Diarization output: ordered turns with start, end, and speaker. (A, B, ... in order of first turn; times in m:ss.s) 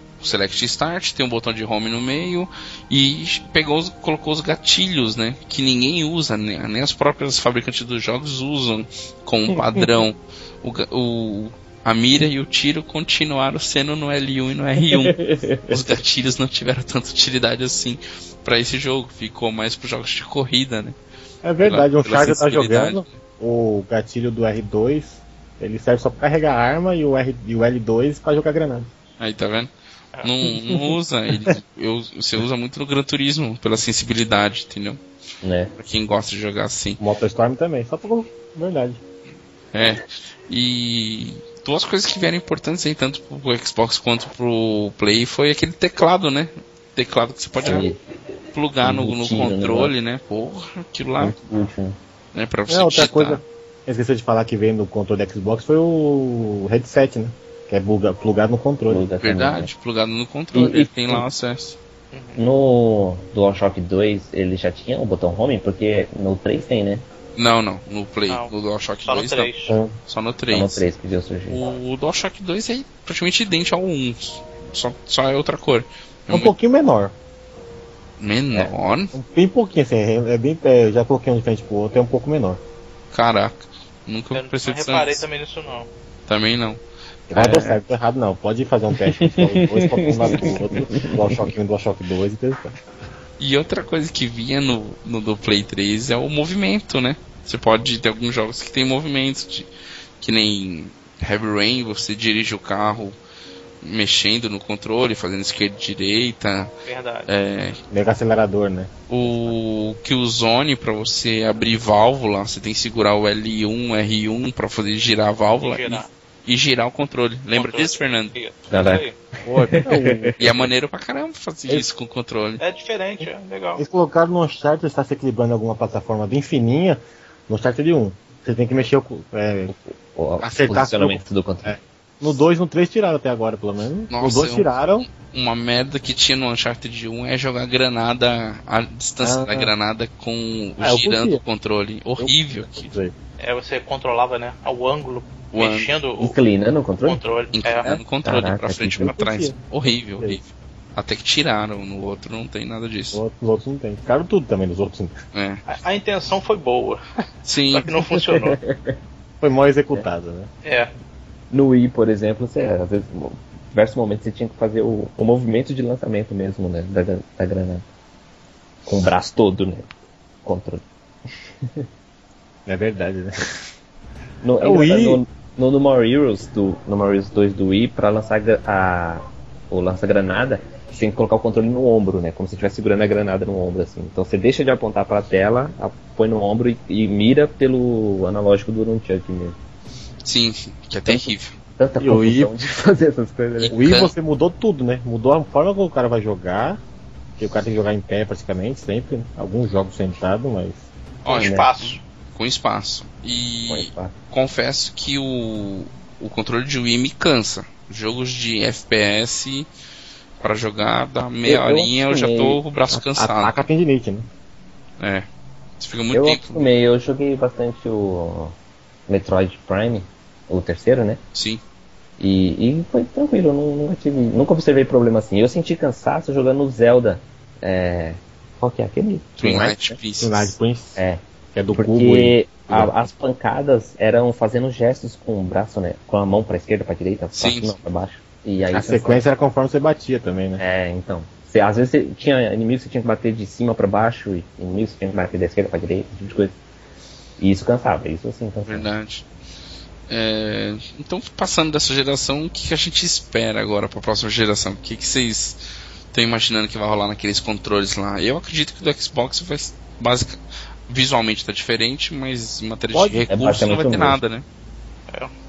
0:00.2-0:21.0 A
0:09.5-0:09.9 B
0:14.8-0:15.8 B
0:21.4-0:28.9 C
0:21.6-0:23.2 A
0:29.2-0:29.7 A
0:30.2-0:35.0 A
0:35.4-0:35.7 B
0:35.8-0:37.0 A
0:37.0-0:39.0 C
0:39.7-0:47.9 A
0:47.6-0:48.0 B
0:48.5-0:51.4 A
0:48.8-0:49.9 B
0:51.2-0:52.0 B
0:52.3-0:53.4 A
0:52.7-0:59.0 C
0:58.9-0:59.7 B
0:59.2-1:01.8 A
1:00.5-1:01.2 B
1:02.1-1:02.4 D
1:02.3-1:07.0 B
1:07.4-1:09.5 A
1:09.0-1:09.8 D
1:10.1-1:10.8 A
1:10.5-1:11.6 B
1:11.5-1:16.5 A
1:16.3-1:17.1 C
1:18.2-1:19.1 A
1:19.1-1:22.6 C
1:23.1-1:25.2 A
1:24.3-1:25.9 D
1:26.3-1:26.8 A
1:27.3-1:27.7 B
1:27.3-1:32.8 C
1:27.4-1:27.7 A
1:29.1-1:31.5 B
1:33.4-1:43.2 A
1:43.8-1:46.7 A
1:46.8-1:47.3 D
1:47.3-1:47.8 A
1:47.9-1:49.5 C
1:49.1-1:58.3 A
1:55.6-1:56.1 D
1:57.5-1:59.1 D
1:58.7-2:00.3 B
1:59.4-2:00.7 C
2:00.4-2:02.6 A
2:02.6-2:03.8 D
2:03.8-2:09.7 C
2:09.7-2:11.8 B
2:10.4-2:15.1 C
2:14.1-2:22.9 A
2:19.2-2:19.7 C
2:20.8-2:21.4 C
2:22.6-2:23.1 C
2:23.4-2:26.4 D
2:25.5-2:25.9 A
2:26.2-2:27.2 B
2:27.0-2:27.9 D
2:27.5-2:33.2 A
2:27.8-2:29.1 B
2:29.0-2:29.5 C
2:33.1-2:35.1 C
2:35.3-2:35.6 A
2:35.6-2:37.0 D
2:37.4-2:37.9 A
2:37.7-2:38.6 D
2:37.9-2:39.0 B
2:39.4-2:40.5 C
2:40.6-2:40.9 D
2:41.5-2:47.8 B
2:48.8-2:49.9 B
2:50.4-2:50.8 B
2:52.6-2:53.3 C
2:54.4-3:09.6 B
2:54.6-2:55.2 C
3:10.2-3:11.5 A
3:11.0-3:13.8 B
3:12.0-3:12.5 C
3:13.6-3:14.1 A
3:13.7-3:16.8 C
3:17.4-3:20.9 C
3:21.2-3:29.7 A
3:21.2-3:22.0 D
3:21.3-3:21.7 B
3:23.7-3:24.1 B
3:30.4-3:33.6 A
3:31.4-3:32.6 B
3:32.9-3:34.3 C
3:35.0-3:35.2 A
3:35.8-3:36.7 A
3:36.1-3:38.5 B
3:39.1-3:41.2 B
3:41.3-3:41.6 A
3:42.2-3:50.0 B
3:49.4-3:50.6 A
3:49.4-3:51.0 C
3:51.0-3:59.2 B
3:51.5-3:52.9 C
3:57.4-3:57.8 A
3:58.7-4:00.6 C
4:00.6-4:06.6 B
4:07.4-4:08.9 B
4:08.6-4:09.2 A
4:10.1-4:15.6 A
4:16.1-4:24.4 A
4:22.9-4:23.3 C
4:23.3-4:24.2 B